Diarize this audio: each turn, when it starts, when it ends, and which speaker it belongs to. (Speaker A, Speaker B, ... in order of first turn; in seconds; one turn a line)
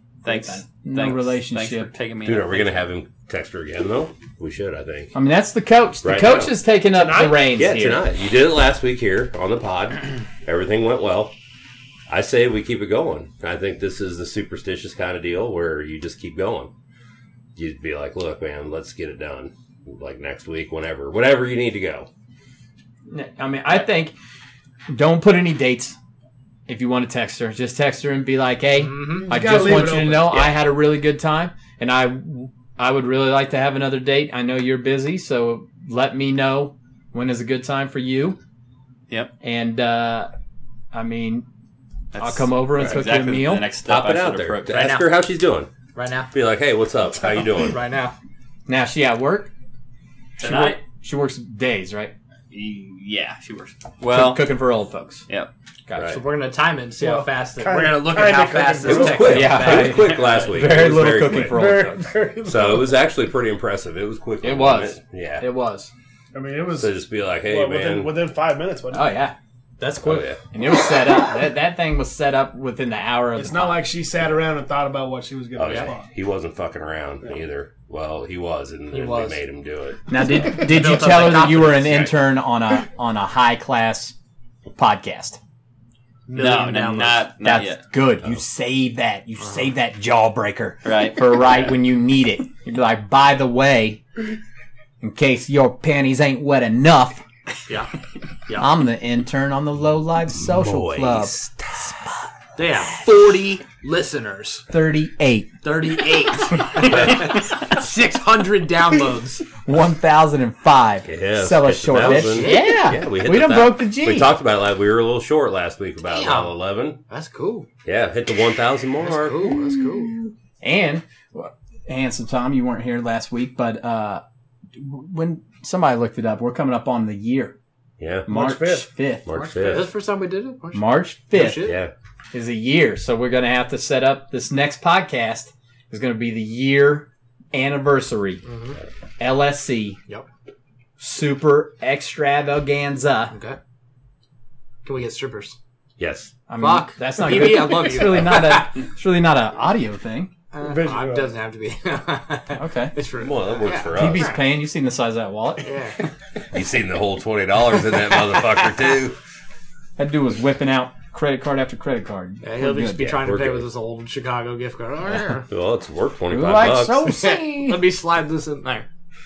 Speaker A: 0.2-2.9
Speaker B: 0.2-1.9
Speaker C: 2.2-5.1
Speaker B: 5.1-8.1
Speaker C: 6.0-6.5
Speaker D: 6.9-7.5
Speaker C: 7.5-11.3
Speaker C: 12.1-16.7
Speaker C: 17.6-22.1
Speaker B: 23.1-24.1
Speaker B: 24.9-26.0
Speaker B: 26.7-38.4
Speaker E: 28.8-29.4
Speaker D: 29.0-30.3
Speaker C: 30.2-30.6
Speaker B: 39.4-40.3
Speaker B: 40.9-41.5
Speaker A: 42.1-44.9
Speaker B: 42.1-43.7
Speaker C: 43.8-45.7
Speaker E: 44.7-45.2
Speaker E: 45.9-46.3
Speaker C: 46.3-47.8
Speaker E: 47.7-48.1
Speaker B: 48.7-49.5
Speaker B: 50.4-52.1
Speaker A: 50.4-50.8
Speaker A: 52.5-54.6
Speaker B: 54.1-55.2
Speaker C: 55.9-56.2
Speaker E: 56.0-60.5
Speaker D: 57.0-59.7
Speaker C: 58.8-61.9
Speaker B: 59.2-62.0
Speaker D: 61.5-63.0
Speaker C: 62.4-65.5
Speaker B: 64.4-65.9
Speaker D: 66.3-69.2
Speaker C: 66.7-68.2
Speaker B: 68.9-69.3
Speaker E: 69.8-70.3
Speaker C: 70.0-70.4
Speaker B: 70.5-73.9
Speaker D: 73.3-76.1
Speaker C: 75.5-80.1
Speaker E: 75.6-75.9
Speaker E: 78.9-79.4
Speaker B: 80.1-84.1
Speaker E: 80.2-82.2
Speaker B: 84.8-85.4
Speaker E: 86.3-87.3
Speaker A: 86.3-87.8
Speaker B: 87.4-94.0
Speaker E: 89.4-89.7
Speaker A: 90.8-91.7
Speaker B: 95.0-97.2
Speaker B: 98.6-102.1
Speaker C: 100.4-101.9
Speaker E: 102.5-104.7
Speaker B: 104.7-105.5
Speaker E: 105.6-109.4
Speaker B: 109.6-114.3
Speaker C: 111.0-117.0
Speaker E: 112.0-112.9
Speaker E: 116.1-116.5
Speaker E: 117.1-117.7
Speaker C: 117.8-119.5
Speaker E: 119.0-120.2
Speaker B: 119.5-124.2
Speaker B: 124.7-127.5
Speaker C: 128.0-128.3
Speaker B: 128.3-129.3
Speaker D: 128.3-128.9
Speaker C: 129.2-129.9
Speaker E: 129.3-131.8
Speaker B: 130.7-131.7
Speaker C: 131.5-131.9
Speaker B: 132.3-138.4
Speaker E: 138.4-138.8
Speaker B: 139.2-140.0
Speaker B: 141.0-143.3
Speaker E: 143.3-143.6
Speaker E: 144.8-145.6
Speaker C: 146.0-146.3
Speaker B: 146.5-150.3
Speaker E: 146.6-148.7
Speaker E: 150.5-154.4
Speaker D: 150.6-151.3
Speaker B: 152.6-152.9
Speaker C: 153.2-154.4
Speaker B: 153.9-155.7
Speaker E: 155.6-156.0
Speaker C: 156.5-159.2
Speaker B: 160.0-163.2
Speaker E: 162.4-165.5
Speaker C: 163.0-163.7
Speaker C: 165.5-167.1
Speaker B: 166.3-167.8
Speaker E: 167.0-168.8